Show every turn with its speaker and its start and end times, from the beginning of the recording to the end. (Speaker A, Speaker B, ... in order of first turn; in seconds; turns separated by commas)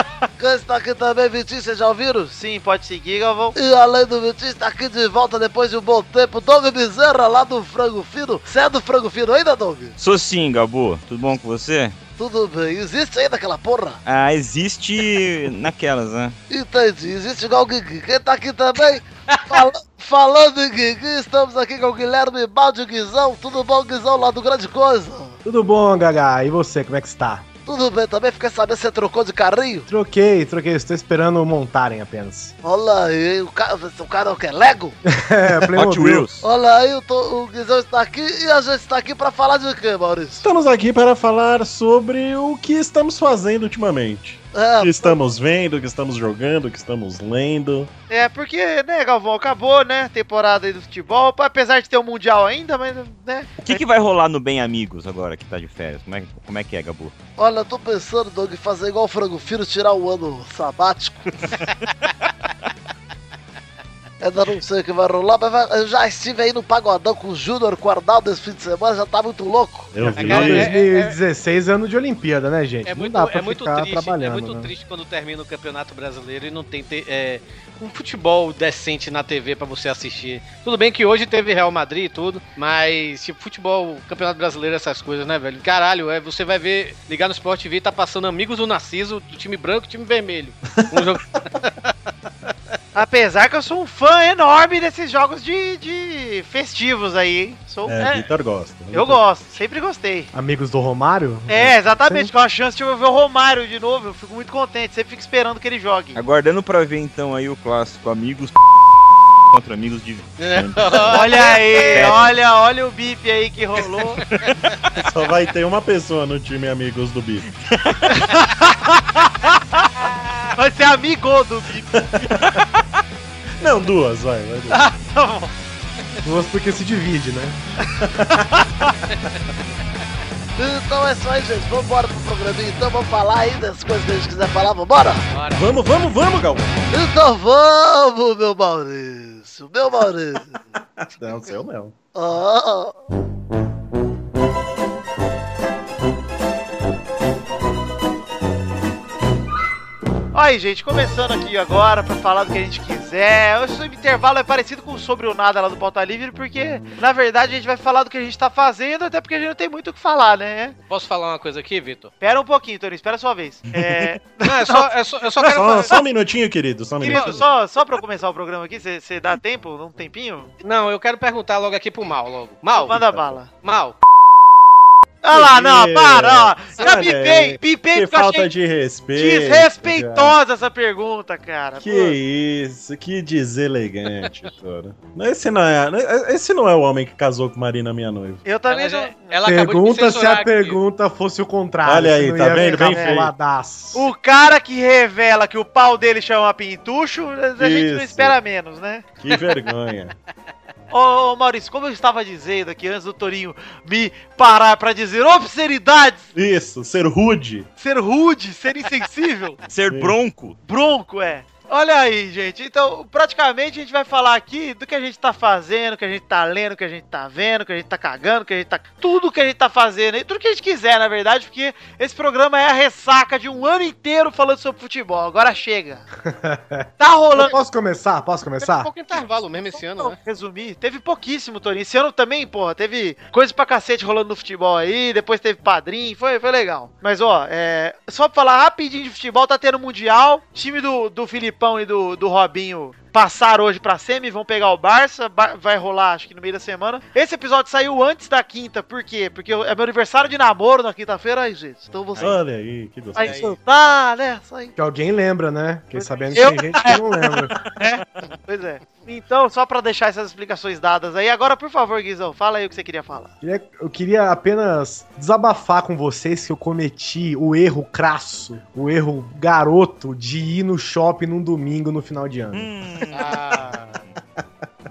Speaker A: 0.4-2.3, Speaker B: 2.3-3.5, Speaker A: 3.5-9.9, Speaker C: 10.0-11.9, Speaker A: 12.2-14.0, Speaker C: 14.0-16.4, Speaker A: 16.5-25.4, Speaker D: 25.4-27.4, Speaker A: 27.6-29.9, Speaker D: 29.9-32.5, Speaker A: 32.6-35.0, Speaker D: 35.0-36.3, Speaker C: 35.7-36.5, Speaker A: 36.4-40.4, Speaker E: 40.4-47.9, Speaker A: 44.5-45.2, Speaker B: 48.1-53.8, Speaker C: 53.6-57.1, Speaker A: 57.4-61.5, Speaker A: 64.2-70.0, Speaker E: 69.9-70.7, Speaker F: 70.0-71.2, Speaker D: 70.1-74.7, Speaker F: 72.8-91.8, Speaker E: 90.7-91.0, Speaker B: 92.9-98.2, Speaker E: 97.8-99.2, Speaker B: 98.9-100.3, Speaker D: 100.3-102.3, Speaker B: 101.5-106.2, Speaker C: 106.1-108.6, Speaker C: 109.5-111.4, Speaker F: 110.4-112.2, Speaker B: 111.1-114.3, Speaker C: 111.9-112.3, Speaker C: 114.4-114.7, Speaker E: 115.0-117.5, Speaker C: 117.8-118.2, Speaker B: 118.2-122.1, Speaker E: 121.9-122.6, Speaker E: 123.6-124.9, Speaker B: 124.7-125.5, Speaker D: 126.2-127.6, Speaker E: 128.0-128.5, Speaker A: 130.6-135.2, Speaker F: 135.3-135.7, Speaker E: 135.5-136.8, Speaker A: 136.9-140.6, Speaker E: 141.0-141.9, Speaker A: 142.1-143.0, Speaker B: 150.3-160.8, Speaker E: 156.6-156.9, Speaker F: 160.9-162.1, Speaker B: 162.2-164.9, Speaker E: 163.7-164.1, Speaker F: 164.4-165.9, Speaker E: 165.4-167.4, Speaker B: 167.0-170.5, Speaker F: 167.1-167.4, Speaker F: 170.6-172.9, Speaker B: 172.8-173.5, Speaker E: 172.9-173.3, Speaker F: 173.6-173.9, Speaker B: 175.2-178.5, Speaker E: 175.3-180.4, Speaker B: 179.2-182.2, Speaker E: 181.8-188.4, Speaker B: 188.4-189.3, Speaker F: 188.7-190.8, Speaker D: 189.4-194.1, Speaker E: 191.8-193.3, Speaker B: 192.6-193.1, Speaker B: 193.9-199.1, Speaker E: 197.6-198.4, Speaker E: 199.2-200.1, Speaker B: 200.9-206.3, Speaker E: 206.3-207.7, Speaker B: 207.8-209.6, Speaker C: 209.7-210.6, Speaker E: 209.9-210.1, Speaker B: 210.6-226.0, Speaker D: 226.2-228.9, Speaker B: 227.0-227.5, Speaker F: 228.6-230.2, Speaker B: 229.8-252.4, Speaker E: 252.2-253.6, Speaker F: 253.1-253.5, Speaker B: 253.1-254.7, Speaker D: 254.8-257.6, Speaker B: 256.3-263.3, Speaker D: 263.4-272.7, Speaker C: 272.5-273.4, Speaker F: 273.1-274.0